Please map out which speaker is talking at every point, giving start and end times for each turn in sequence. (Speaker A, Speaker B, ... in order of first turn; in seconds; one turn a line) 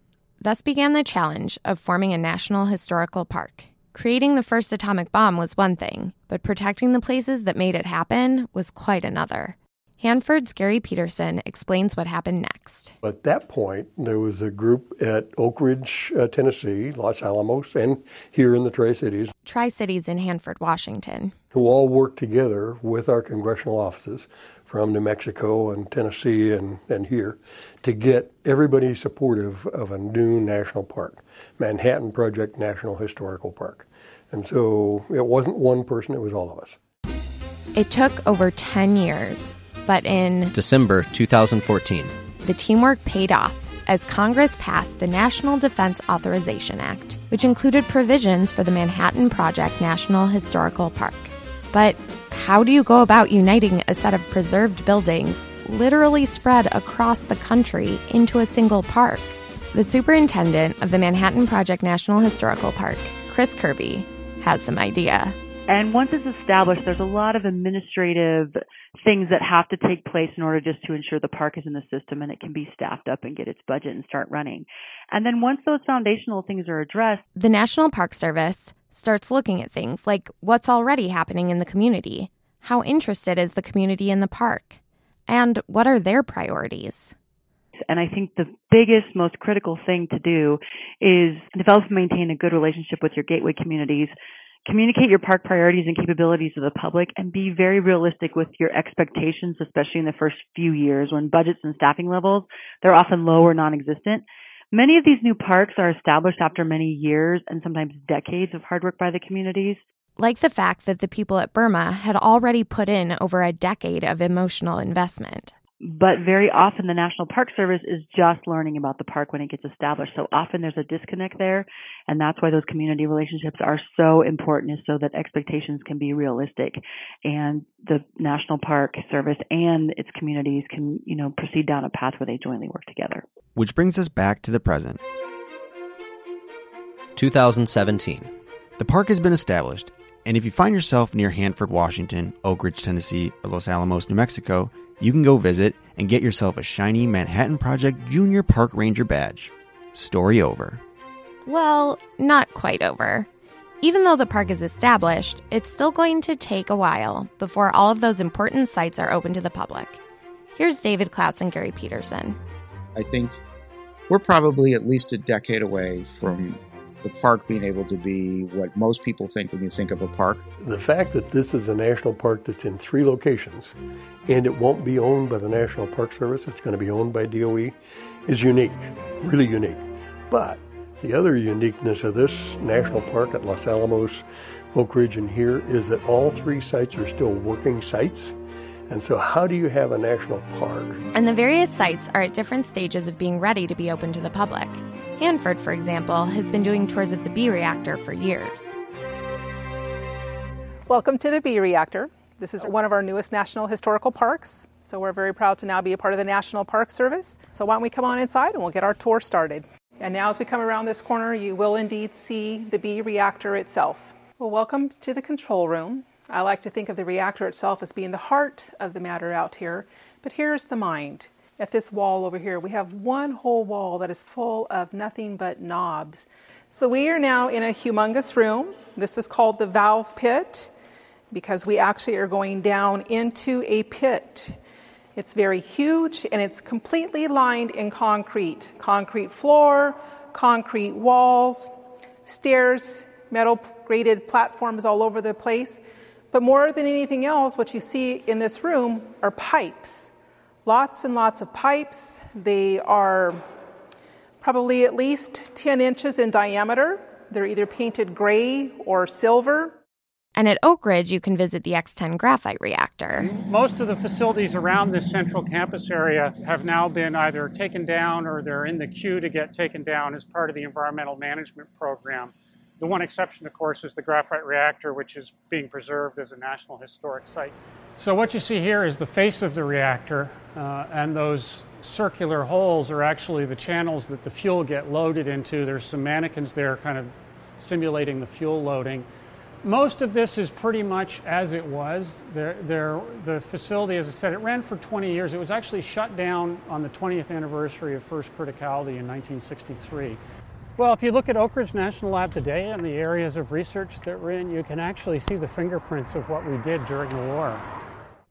Speaker A: 0.4-12.9
Speaker B: 13.0-19.3
Speaker A: 19.4-21.3
Speaker B: 21.5-36.8
Speaker A: 37.7-40.5
Speaker C: 40.5-42.1
Speaker A: 42.4-65.3
Speaker D: 65.7-77.2
Speaker A: 77.3-87.1
Speaker D: 87.9-94.1
Speaker D: 94.7-109.8
Speaker A: 110.2-115.5
Speaker D: 115.8-133.2
Speaker E: 133.6-135.0
Speaker C: 137.2-138.3
Speaker E: 138.8-150.8
Speaker A: 151.4-153.3
Speaker A: 153.8-160.0
Speaker A: 160.5-162.4
Speaker F: 162.9-163.4
Speaker F: 164.1-170.4
Speaker B: 170.6-173.7
Speaker B: 174.3-188.3
Speaker B: 188.9-191.0
Speaker A: 191.1-198.8
Speaker G: 200.9-230.7
Speaker G: 231.3-234.5
Speaker G: 235.2-241.7
Speaker G: 242.2-250.1
Speaker G: 250.6-253.4
Speaker G: 254.4-259.7
Speaker A: 260.3-263.3
Speaker H: 263.2-289.1
Speaker H: 289.6-300.2
Speaker H: 300.8-307.6